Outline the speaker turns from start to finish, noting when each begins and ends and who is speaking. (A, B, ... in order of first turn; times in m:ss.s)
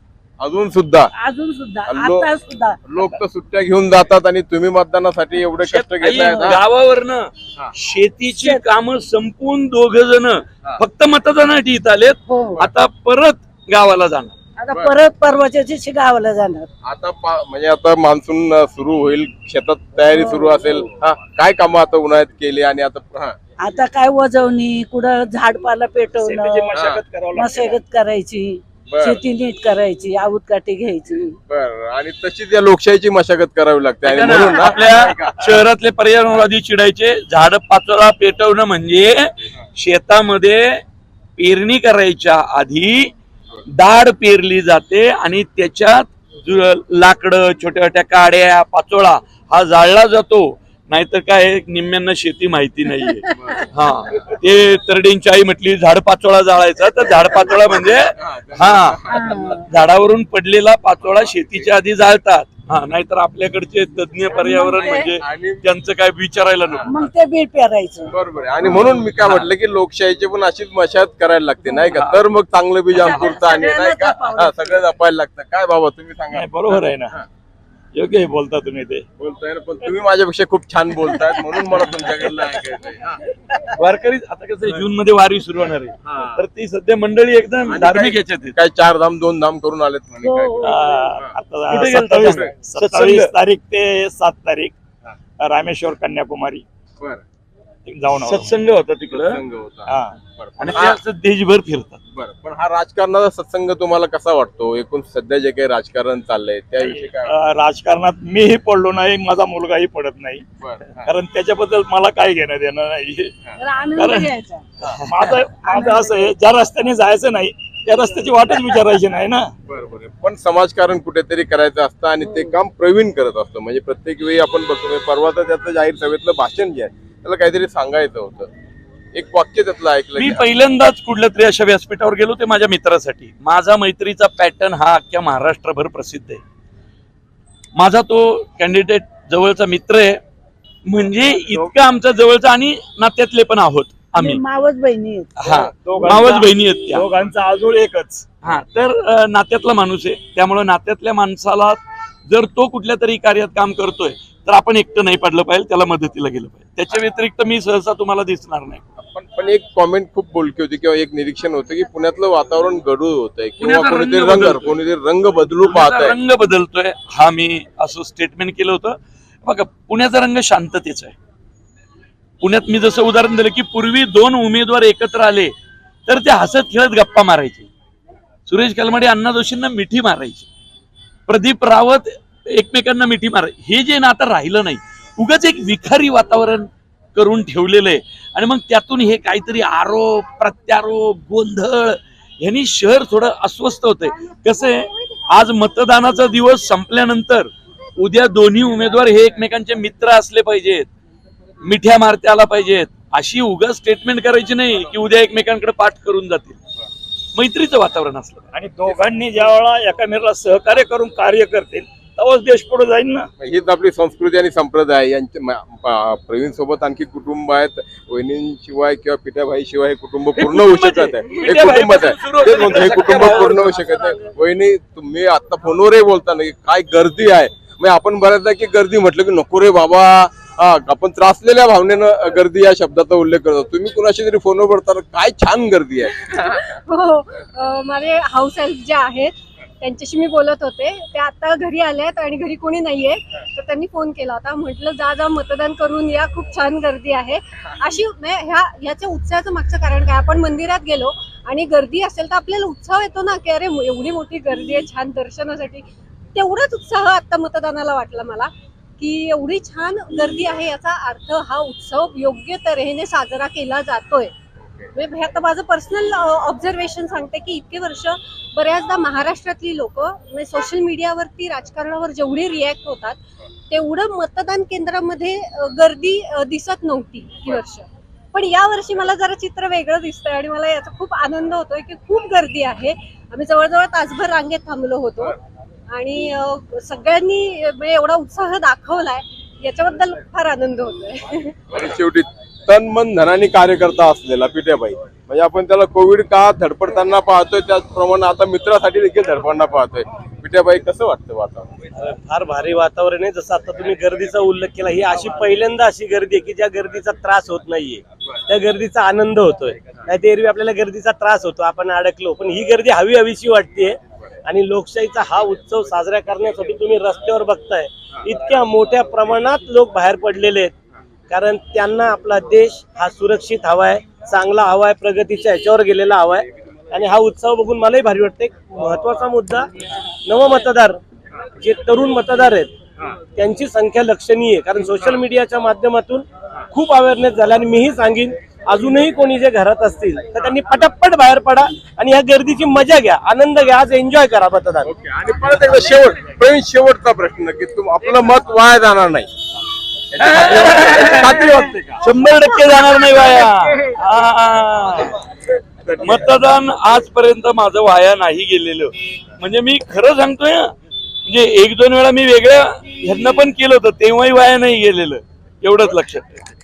0:00.4-0:01.1 A
0:01.2-0:03.2 B
0:01.9-0:02.3 A
0:02.9-0:06.6 A
0:05.6-0:14.4 C
0:08.3-0:08.6 B
0:12.3-0:12.7 B
0:14.6-0:16.7 B
0:16.8-0:23.4 A
0:20.1-0:20.6 B
0:23.6-0:26.8 B
0:26.2-0:27.8 D
0:26.7-0:27.0 A
0:27.3-0:31.4 B
0:28.9-0:29.2 A
0:31.5-0:35.5 A
0:34.0-0:40.8 C
0:34.8-0:35.3 D
0:41.4-0:43.1 C
0:43.7-0:59.0 C
0:53.3-0:53.7 A
0:58.2-0:59.6 A
0:59.1-0:59.7 B
0:59.7-1:06.9 C
1:01.2-1:01.6 A
1:04.4-1:04.8 B
1:04.8-1:05.6 A
1:06.9-1:08.2 B
1:08.1-1:17.3 A
1:09.2-1:09.5 C
1:11.9-1:12.2 C
1:13.0-1:14.8 B
1:16.3-1:17.2 D
1:17.9-1:19.0 D
1:19.2-1:23.2 A
1:23.8-1:28.6 C
1:26.1-1:26.4 A
1:27.7-1:31.3 A
1:30.2-1:31.1 B
1:30.6-1:34.7 D
1:31.7-1:33.3 C
1:35.4-1:36.6 D
1:37.9-1:38.5 D
1:38.2-1:39.4 C
1:39.1-1:41.0 A
1:39.9-1:40.8 D
1:40.6-1:42.0 C
1:42.1-1:47.3 A
1:46.8-1:50.4 D
1:50.6-1:51.1 A
1:51.0-1:53.4 D
1:53.6-1:54.8 B
1:54.0-1:54.3 D
1:54.9-1:59.5 D
1:55.5-1:56.3 B
1:59.7-2:08.5 A
2:09.2-2:10.4 A
2:10.2-2:16.4 C
2:17.8-2:20.2 C
2:20.9-2:24.4 C
2:24.2-2:25.4 B
2:25.4-2:27.1 C
2:25.5-2:28.3 D
2:28.4-2:38.8 C
2:39.0-2:46.2 A
2:43.6-2:44.8 C
2:45.6-2:51.2 C
2:52.4-2:55.5 C
2:56.1-2:57.7 C
2:58.5-3:00.5 C
3:01.3-3:20.9 C
3:21.6-3:26.6 C
3:27.4-3:28.5 C
3:28.5-3:33.3 D
3:33.4-3:56.4 A
3:40.4-3:44.0 C
3:56.4-4:24.3 E
4:24.9-4:33.2 E
4:33.7-4:45.4 E
4:45.9-4:51.6 E
4:51.7-5:01.7 A
5:02.0-5:20.7 F
5:21.3-5:29.7 F
5:30.2-5:31.0 F
5:31.6-5:32.7 F
5:33.4-5:44.9 F
5:44.8-5:49.3 A
5:50.1-5:52.0 A
5:50.2-5:51.4 C
5:52.0-5:55.2 C
5:55.8-5:56.1 A
5:56.0-6:00.7 C
6:01.3-6:06.4 C